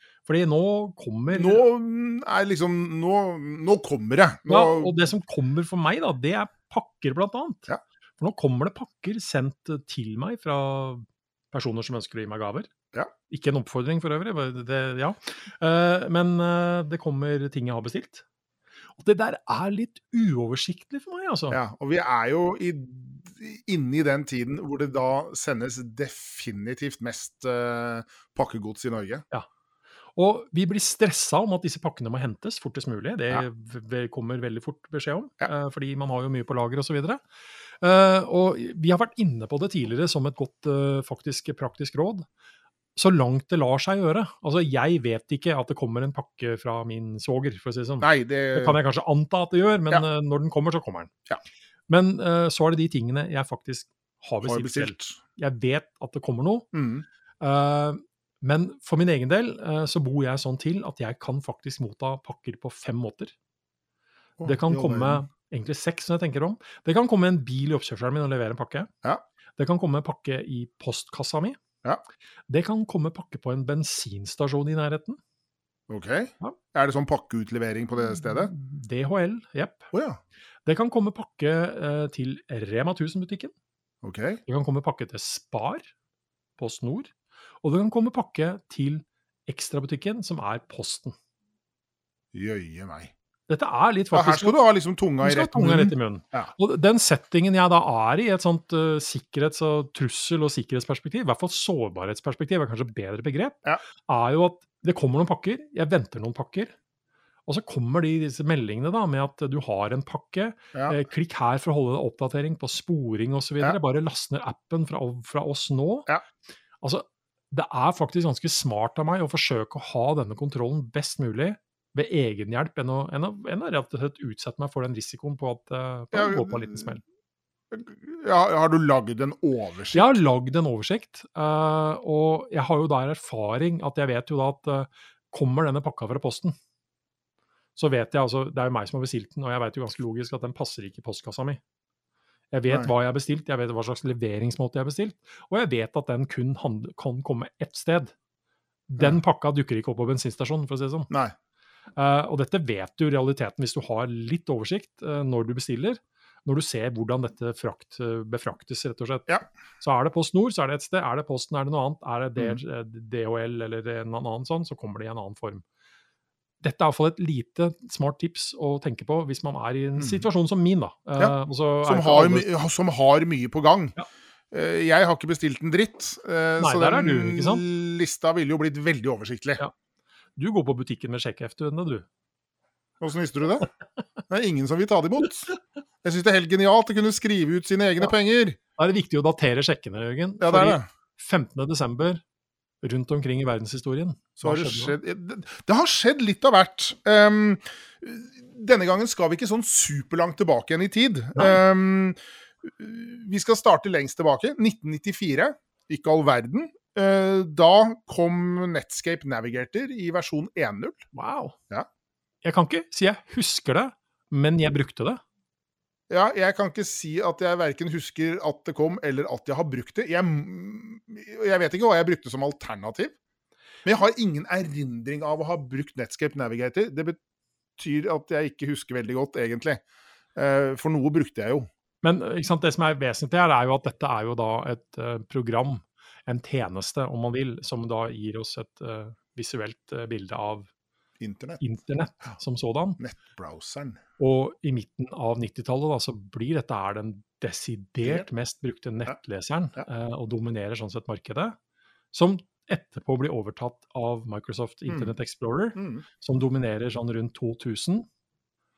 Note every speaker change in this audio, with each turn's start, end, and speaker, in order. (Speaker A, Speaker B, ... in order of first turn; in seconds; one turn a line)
Speaker A: 0.3-1.6
Speaker B: 1.3-4.9
Speaker A: 4.5-7.7
Speaker A: 8.2-12.7
Speaker A: 13.3-18.2
Speaker A: 19.0-21.6
Speaker B: 21.5-29.2
Speaker A: 30.2-37.2
Speaker A: 37.8-42.3
Speaker A: 43.0-51.1
Speaker B: 48.0-48.8
Speaker A: 51.9-56.7
Speaker B: 54.4-55.2
Speaker B: 56.7-57.1
Speaker A: 57.4-63.4
Speaker B: 64.4-65.2
Speaker A: 64.4-68.9
Speaker A: 69.6-71.6
Speaker A: 72.5-75.2
Speaker B: 75.9-78.5
Speaker A: 78.1-79.9
Speaker B: 79.9-80.2
Speaker A: 80.7-83.5
Speaker B: 84.0-84.4
Speaker A: 84.5-85.9
Speaker A: 86.6-87.1
Speaker A: 87.6-91.2
Speaker B: 92.3-93.1
Speaker A: 93.5-94.6
Speaker B: 94.1-96.5
Speaker A: 95.2-106.7
Speaker A: 107.5-116.1
Speaker A: 116.8-127.0
Speaker B: 126.1-126.9
Speaker B: 127.7-130.1
Speaker A: 129.9-136.6
Speaker A: 137.8-141.6
Speaker A: 142.5-148.1
Speaker A: 148.9-151.1
Speaker A: 152.0-165.6
Speaker A: 166.6-172.6
Speaker B: 170.0-170.3
Speaker B: 171.2-174.0
Speaker B: 174.5-179.6
Speaker A: 176.6-177.7
Speaker A: 180.4-182.1
Speaker B: 183.0-183.7
Speaker B: 184.3-188.6
Speaker A: 188.8-192.2
Speaker B: 190.4-190.8
Speaker A: 192.8-195.0
Speaker B: 194.4-211.0
Speaker A: 201.4-201.6
Speaker A: 211.1-211.6
Speaker A: 212.4-215.2
Speaker B: 216.1-223.2
Speaker B: 223.8-227.2
Speaker B: 227.8-229.8
Speaker B: 230.4-231.7
Speaker A: 232.0-240.7
Speaker B: 241.2-241.6
Speaker A: 241.6-243.0
Speaker B: 243.0-244.0
Speaker A: 244.2-251.6
Speaker A: 252.1-258.1
Speaker B: 255.8-256.0